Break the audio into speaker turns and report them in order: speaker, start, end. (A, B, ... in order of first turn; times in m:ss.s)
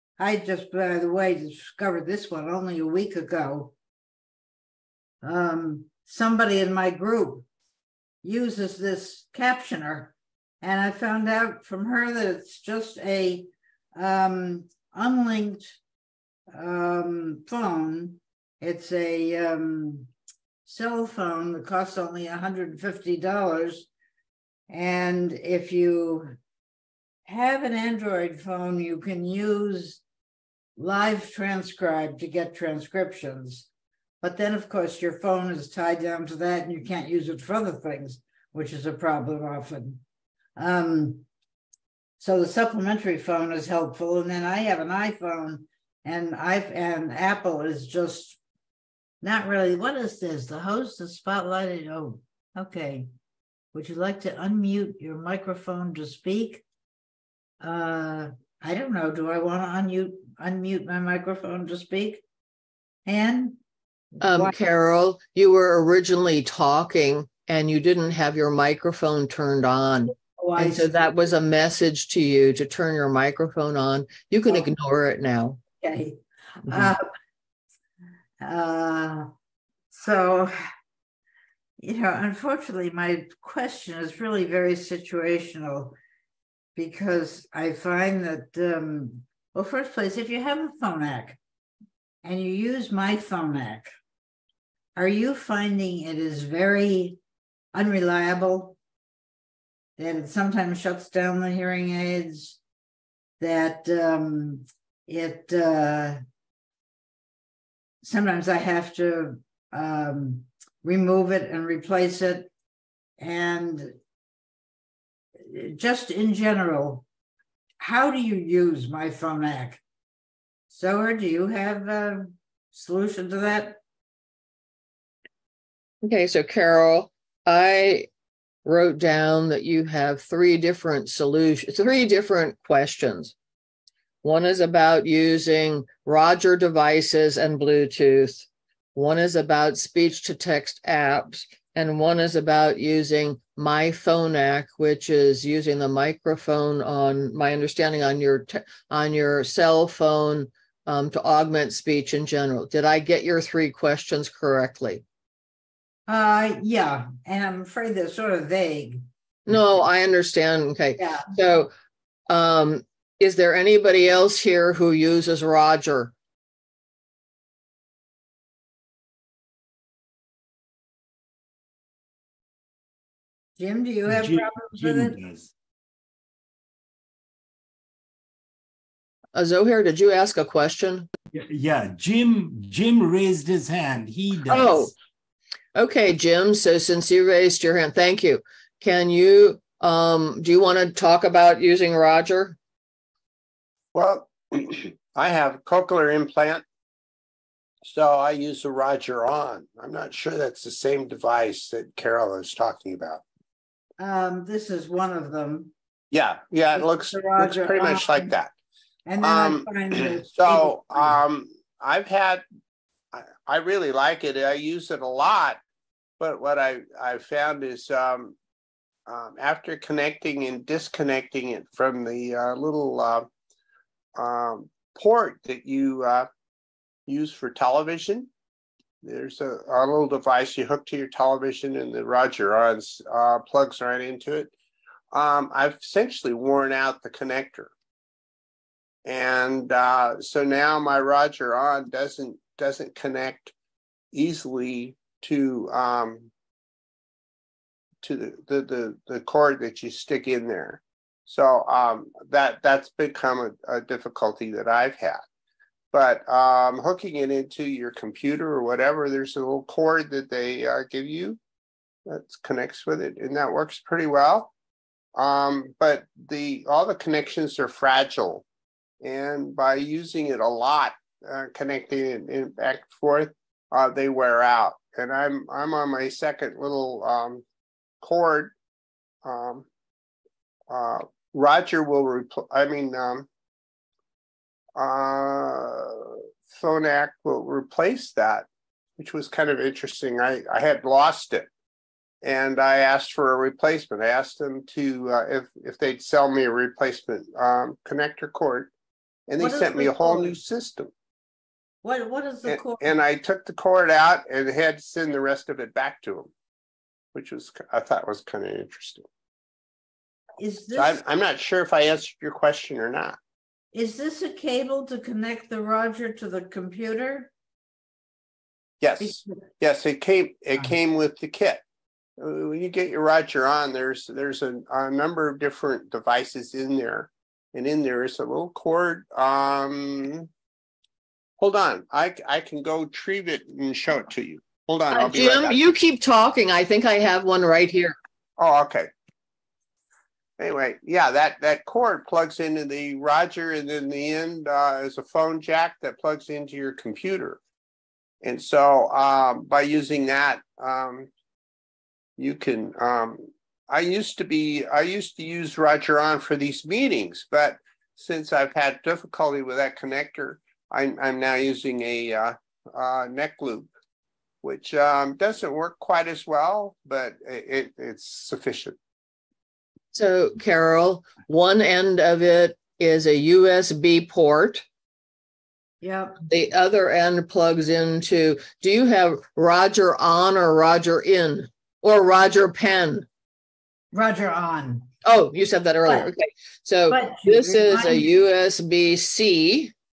0:00.2-0:03.7 A
0:05.2-0:07.4 A
0:08.2-0:15.7 A
0:16.5-0:20.1 A
0:20.6-0:23.9 A
0:24.7-0:26.4 A
0:27.2-0:30.0 A
0:30.8-0:33.6 A
0:34.2-0:40.0 A
0:40.6-0:41.2 A
0:42.2-0:48.4 A
0:49.2-0:53.1 A
0:53.7-0:56.6 A
0:57.6-1:02.2 A
1:03.0-1:03.6 A
1:04.2-1:15.6 B
1:04.2-1:04.5 A
1:10.4-1:10.9 A
1:15.8-1:17.0 A
1:18.4-1:19.3 A
1:19.9-1:20.5 A
1:21.8-1:26.0 A
1:26.8-1:31.4 A
1:32.2-1:33.9 A
1:35.0-1:37.2 A
1:37.7-1:38.8 A
1:40.0-1:42.6 A
1:43.4-1:46.2 A
1:48.0-1:52.5 A
1:53.2-1:53.9 A
1:55.5-1:57.0 A
1:57.8-1:59.8 A
2:00.7-2:03.8 A
2:06.0-2:08.1 B
2:08.6-2:13.3 B
2:14.2-2:35.0 B
2:36.1-2:39.1 A
2:39.5-2:41.7 B
2:41.0-2:41.3 A
2:42.3-2:46.1 B
2:53.6-2:55.2 A
2:54.0-2:55.5 C
2:59.3-3:01.1 B
3:01.3-3:04.9 C
3:04.5-3:04.9 B
3:05.7-3:12.6 B
3:13.9-3:16.6 D
3:17.8-3:23.2 D
3:24.0-3:25.7 A
3:26.1-3:28.5 D
3:26.8-3:28.3 A
3:29.0-3:31.2 A
3:29.2-3:32.4 D
3:33.1-3:35.6 D
3:36.2-3:38.4 D
3:39.0-3:43.3 D
3:44.2-3:46.3 D
3:47.1-3:48.3 D
3:49.0-3:54.5 D
3:55.1-3:57.7 D
3:59.0-4:03.5 D
4:04.1-4:06.3 D
4:08.0-4:15.2 D
4:15.9-4:21.4 D
4:22.1-4:24.5 D
4:25.1-4:28.4 D
4:29.0-4:37.4 D
4:38.0-4:38.5 D
4:39.2-4:39.6 D
4:40.7-4:43.3 D
4:44.7-4:51.5 D
4:52.2-4:58.7 D
4:59.3-5:00.9 D
4:59.4-5:00.4 A
5:01.8-5:02.9 A
5:02.4-5:06.3 D
5:07.1-5:09.1 D
5:10.4-5:11.0 A
5:10.8-5:13.2 D
5:13.7-5:17.3 A
5:18.8-5:21.6 D
5:19.0-5:19.5 A
5:22.2-5:30.3 D
5:31.4-5:35.7 D
5:34.9-5:37.9 B
5:38.4-5:38.9 D
5:40.4-5:47.4 D
5:48.2-5:51.1 D
5:52.2-6:03.7 D
6:04.4-6:08.8 D
6:09.9-6:14.6 B
6:15.8-6:16.2 A
6:16.3-6:23.0 B
6:23.9-6:24.9 A
6:25.0-6:29.7 B
6:25.8-6:26.1 A
6:26.9-6:28.1 A